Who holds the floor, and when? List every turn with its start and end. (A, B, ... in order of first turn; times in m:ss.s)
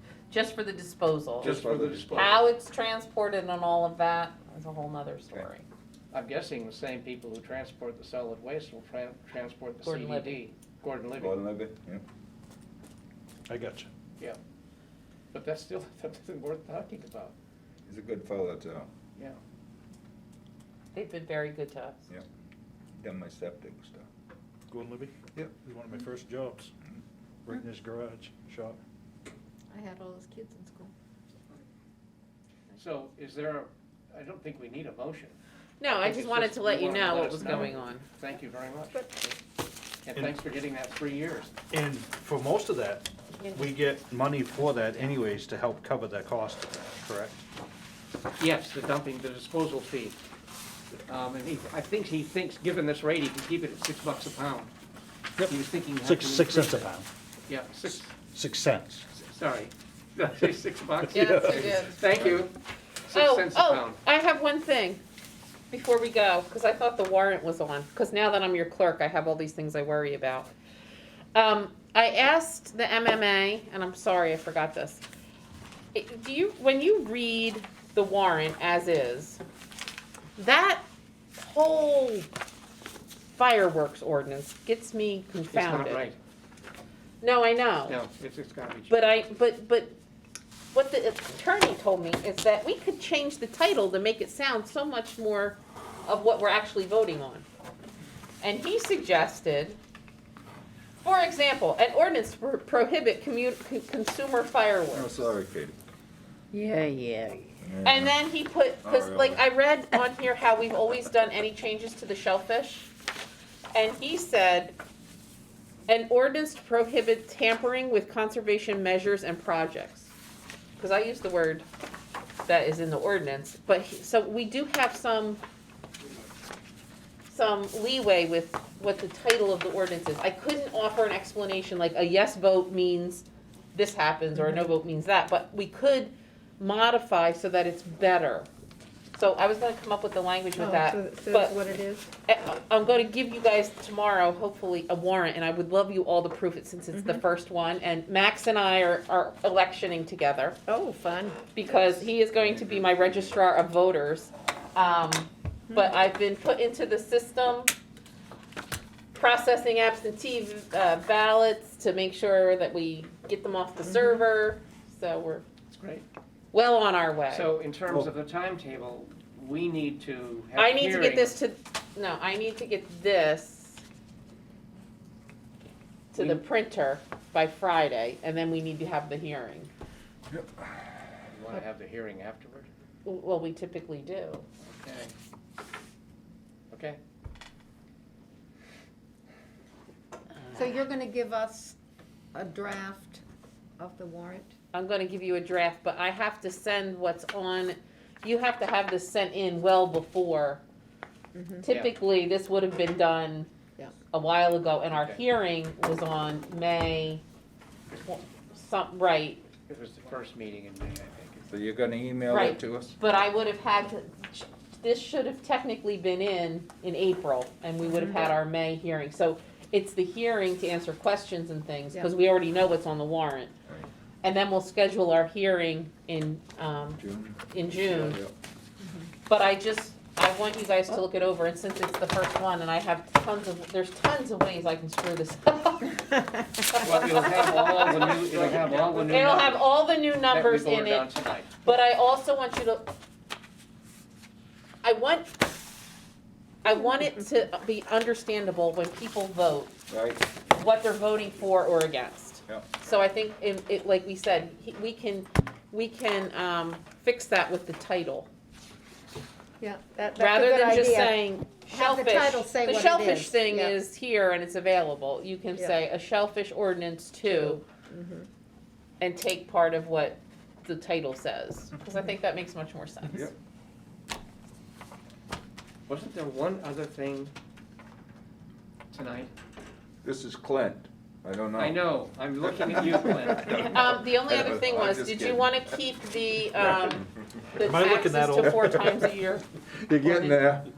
0:00.3-0:01.6 A
0:01.4-0:02.4 B
0:01.4-0:02.5 C
0:02.1-0:05.7 A
0:06.1-0:11.4 C
0:09.8-0:10.4 A
0:11.2-0:12.0 B
0:13.5-0:13.9 D
0:15.3-0:17.4 C
0:17.9-0:18.9 B
0:20.9-0:22.1 A
0:23.0-0:24.1 B
0:24.7-0:26.7 D
0:27.5-0:28.8 D
0:29.7-0:30.9 E
0:32.7-0:39.1 C
0:35.8-0:38.0 A
0:40.0-0:41.5 C
0:41.7-0:47.4 D
0:48.4-0:50.2 C
0:51.1-0:54.7 C
0:55.4-0:57.1 D
0:55.5-0:56.9 C
0:57.5-0:58.1 C
0:57.9-0:59.1 D
0:59.2-1:02.5 C
1:01.0-1:01.7 D
1:01.1-1:02.0 A
1:03.0-1:04.0 C
1:03.1-1:05.0 A
1:05.7-1:10.5 A
1:11.3-1:15.0 A
1:15.9-1:19.4 A
1:20.4-1:20.8 A
1:21.4-1:22.3 A
1:23.4-1:26.1 A
1:25.5-1:26.2 C
1:27.2-1:28.0 A
1:27.9-1:29.0 C
1:28.9-1:30.0 A
1:30.7-1:37.4 A
1:38.4-1:39.8 A
1:41.0-1:45.3 A
1:44.9-1:45.8 B
1:46.5-1:47.5 E
1:47.6-1:48.1 B
1:47.8-1:52.9 A
1:48.8-1:49.4 B
1:53.7-1:54.8 A
1:55.9-2:00.1 A
2:00.8-2:01.6 A
2:02.5-2:05.4 A
2:07.3-2:18.5 A
2:14.4-2:14.7 E
2:19.1-2:21.6 A
2:20.6-2:22.1 E
2:22.3-2:30.6 A
2:26.9-2:27.2 E
2:30.7-2:32.0 E
2:31.6-2:37.7 A
2:32.4-2:32.8 B
2:39.1-2:45.4 A
2:43.9-2:44.2 E
2:45.7-2:46.0 C
2:46.5-2:47.5 A
2:47.3-2:51.4 C
2:50.6-2:53.8 A
2:56.1-2:59.7 A
2:56.1-2:56.4 C
3:00.3-3:00.7 B
3:01.3-3:02.7 C
3:03.0-3:04.4 A
3:04.6-3:05.1 C
3:06.7-3:07.0 C
3:10.3-3:10.7 A
3:10.5-3:11.8 E
3:12.3-3:13.2 E
3:13.8-3:14.5 E
3:14.7-3:20.6 A
3:21.3-3:21.7 E
3:21.6-3:23.5 A
3:21.7-3:21.9 C
3:24.1-3:27.2 A
3:24.9-3:25.2 C
3:28.0-3:29.4 A
3:29.7-3:31.6 C
3:31.5-3:33.0 B
3:32.3-3:43.5 A
3:37.9-3:38.3 E
3:44.2-3:48.2 A
3:47.0-3:48.3 B
3:48.8-3:49.1 E
3:49.3-3:56.1 A
3:56.7-4:02.9 A
3:56.8-4:01.5 C
4:04.8-4:05.4 A
4:06.6-4:09.7 A
4:09.9-4:10.2 B
4:10.5-4:18.3 A
4:19.6-4:23.8 E
4:20.2-4:27.6 A
4:27.2-4:28.3 E
4:29.0-4:33.3 A
4:35.9-4:37.3 C
4:38.9-4:39.3 C
4:40.0-4:41.9 B
4:41.6-4:43.8 C
4:42.5-4:45.6 B
4:43.5-4:49.4 A
4:47.6-4:48.9 D
4:48.4-4:48.7 B
4:49.8-4:50.7 B
4:50.0-4:50.6 A